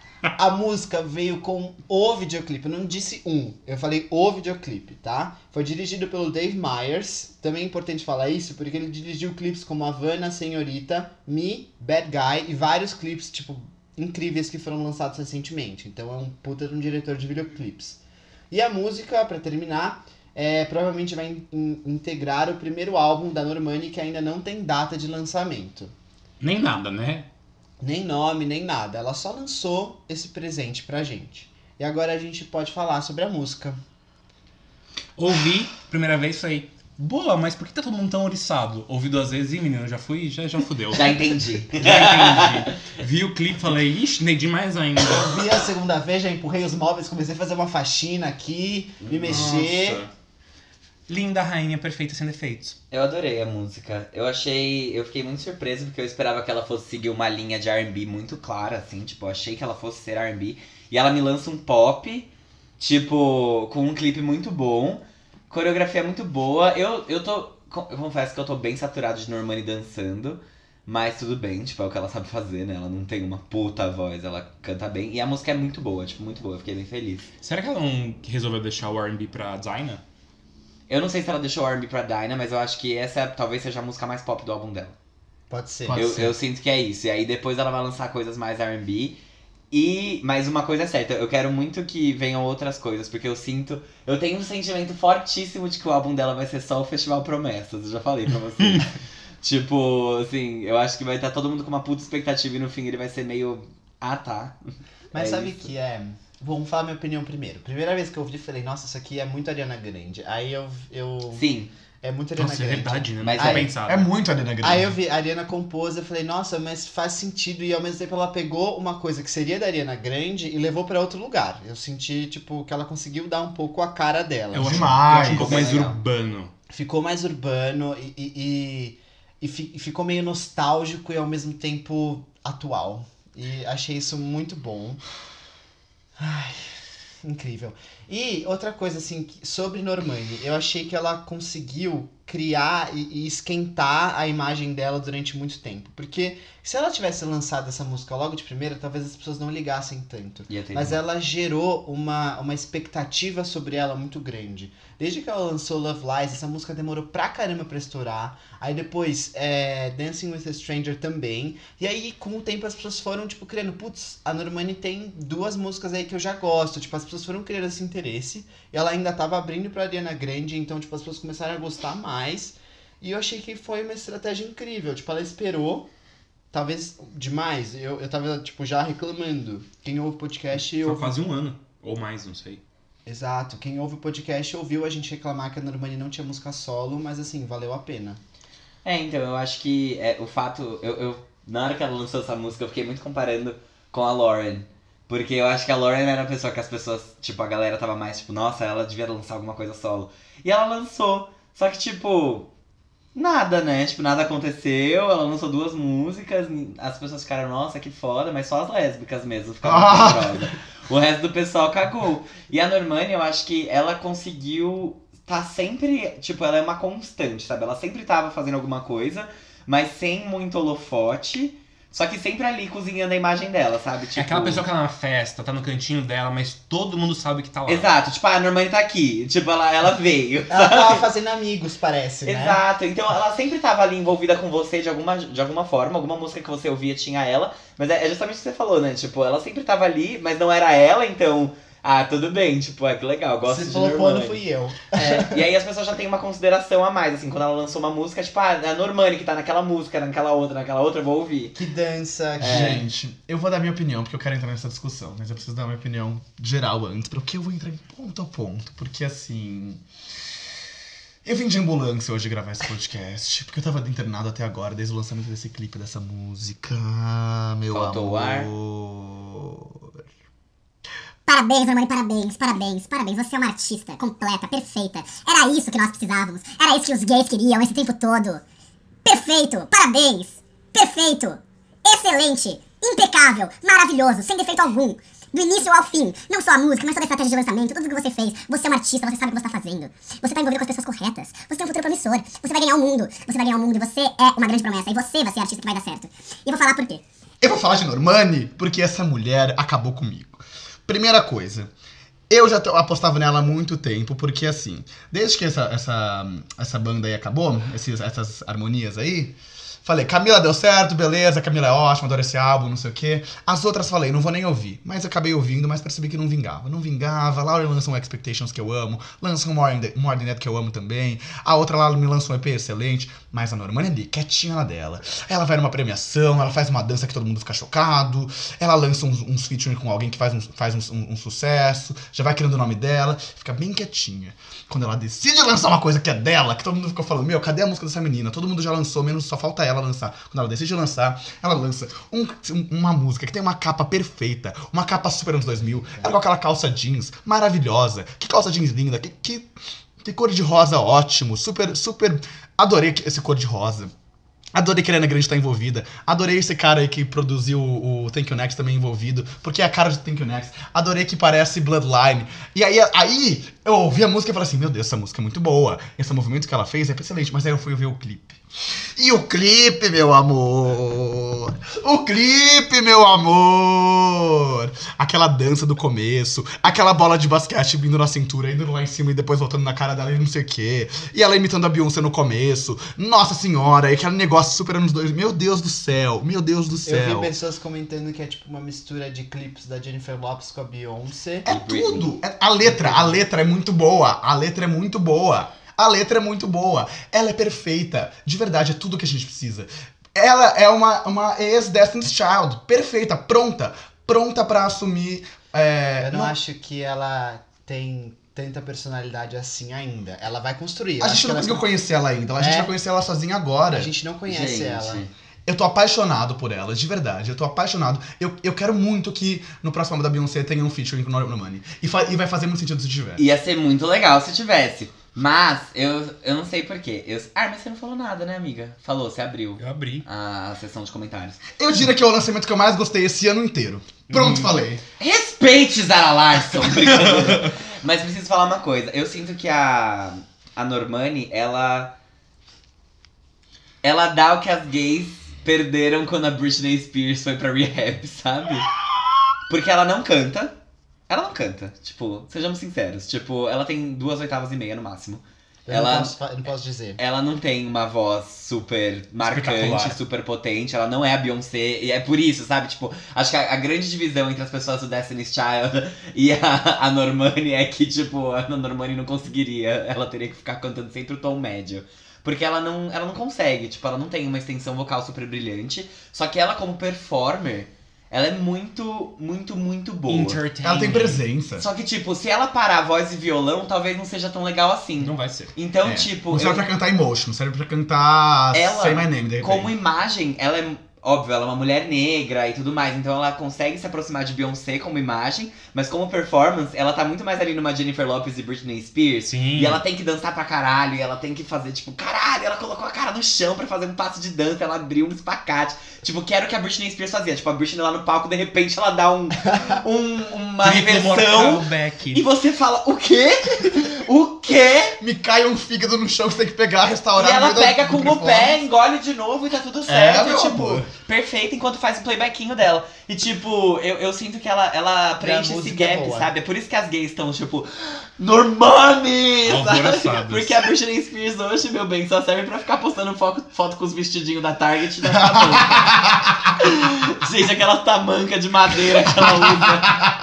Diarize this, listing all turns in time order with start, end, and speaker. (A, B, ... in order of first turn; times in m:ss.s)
0:00.4-0:18.0 A
0:18.5-0:25.9 A
0:26.4-0:27.3 B
0:27.8-0:33.8 A
0:35.2-0:41.2 B
0:40.9-0:42.7 C
0:41.7-0:45.4 B
0:45.1-0:50.0 A
0:49.0-0:49.6 C
0:49.2-0:50.1 B
0:51.1-0:52.8 B
0:52.9-1:17.3 C
1:17.4-1:20.0 B
1:20.9-1:25.0 C
1:25.5-1:26.0 A
1:25.9-1:26.3 D
1:25.9-1:29.2 C
1:29.7-1:38.9 C
1:39.4-1:44.6 C
1:45.1-1:51.5 A
1:45.1-1:45.7 C
1:51.3-1:51.7 C
1:52.0-1:53.7 A
1:52.4-1:54.1 B
1:53.2-1:53.7 C
1:53.8-1:54.9 D
1:54.6-2:04.9 A
2:04.5-2:06.5 B
2:04.6-2:05.6 D
2:05.3-2:06.0 C
2:06.7-2:15.0 A
2:16.2-2:16.6 A
2:17.2-2:55.9 A
2:30.5-2:31.0 C
2:56.5-3:01.2 A
3:00.6-3:02.6 B
3:03.1-3:08.2 A
3:08.8-3:22.5 C
3:23.2-3:44.7 C
3:29.6-3:30.5 D
3:44.2-3:47.9 B
3:47.7-3:51.1 C
3:50.5-3:52.6 A
3:52.2-4:04.4 C
4:03.5-4:05.5 A
4:04.9-4:11.6 C
4:11.6-4:12.8 A
4:12.4-4:12.8 C
4:12.4-4:19.8 D
4:21.2-4:30.0 D
4:27.7-4:28.5 C
4:31.3-4:38.4 E
4:39.0-4:57.0 E
4:57.4-5:01.7 D
5:02.3-5:53.9 D
5:54.5-6:08.4 D
6:09.0-6:27.3 D
6:26.9-6:31.5 A
6:31.4-6:46.4 D
6:31.5-6:32.1 C
6:32.6-6:33.2 A
6:46.0-6:51.6 A
6:51.0-6:53.9 D
6:52.4-6:52.7 A
6:53.7-6:55.0 A
6:54.3-6:55.1 C
6:55.5-7:03.2 D
7:03.2-7:11.4 C
7:09.6-7:10.1 B
7:11.6-7:14.8 D
7:14.1-7:14.6 B
7:15.0-7:21.9 C
7:23.8-7:28.7 C
7:29.5-7:30.6 C
7:31.1-7:36.2 C
7:35.7-7:37.0 A
7:37.0-8:00.4 C
7:39.3-7:40.0 B
8:00.1-8:01.2 B
8:00.6-8:01.7 D
8:01.6-8:06.6 C
8:05.0-8:05.5 B
8:05.8-8:09.7 D
8:08.5-8:35.0 C
8:19.3-8:19.8 B
8:30.6-8:32.2 B
8:35.0-8:38.6 D
8:37.2-9:00.1 C
8:39.9-8:40.9 D
8:45.2-8:46.3 A
8:49.4-8:50.6 B
8:55.3-8:56.3 D